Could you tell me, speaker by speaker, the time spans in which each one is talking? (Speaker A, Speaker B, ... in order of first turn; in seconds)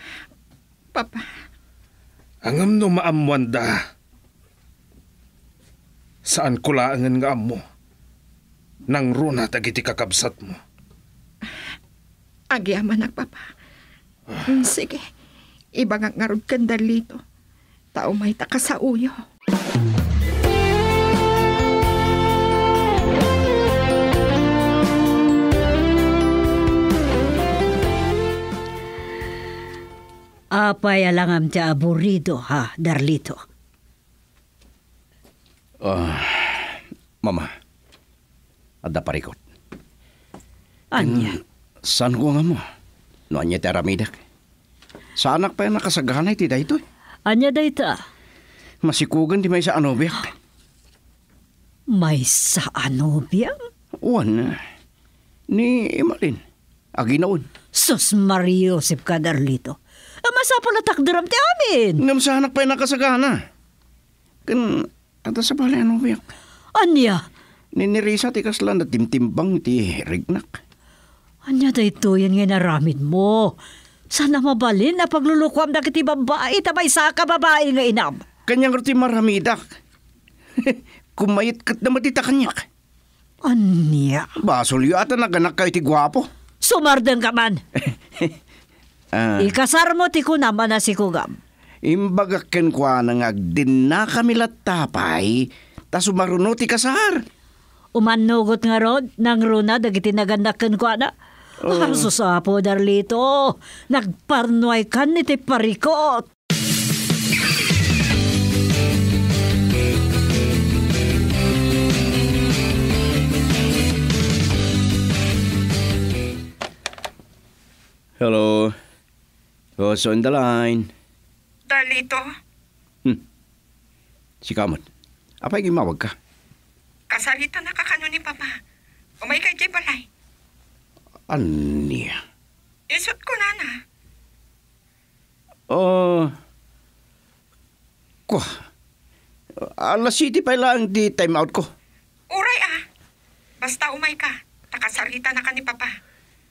Speaker A: 0.9-1.3, 12.5-13.5, 14.4-15.1, 15.8-17.2, 17.9-19.2, 121.7-122.3, 127.1-128.6, 129.2-130.1, 132.9-133.8, 142.3-142.8, 143.6-145.9
Speaker B: 2.4-3.8, 6.2-7.6, 8.9-10.6
Speaker C: 30.5-33.4, 40.9-41.3, 47.2-48.0, 51.9-53.6, 57.7-62.0, 66.8-67.2, 71.5-73.6, 74.1-78.2, 83.4-84.3, 86.6-87.6, 89.4-91.3, 97.9-101.1, 101.7-106.3
Speaker D: 35.8-37.5, 38.8-39.4, 41.0-42.6, 43.3-44.2, 45.2-46.8, 48.8-50.3, 54.0-54.6, 55.5-56.4, 57.0-57.5, 62.0-63.4, 64.5-66.3, 67.7-70.6, 78.5-79.6, 80.6-82.7, 84.4-86.3, 89.1-89.5, 91.8-97.2, 101.6-102.1, 118.2-118.8, 119.8-120.9, 124.4-124.8, 125.4-126.1, 131.3-132.2, 135.7-136.3, 138.3-138.6, 139.6-141.7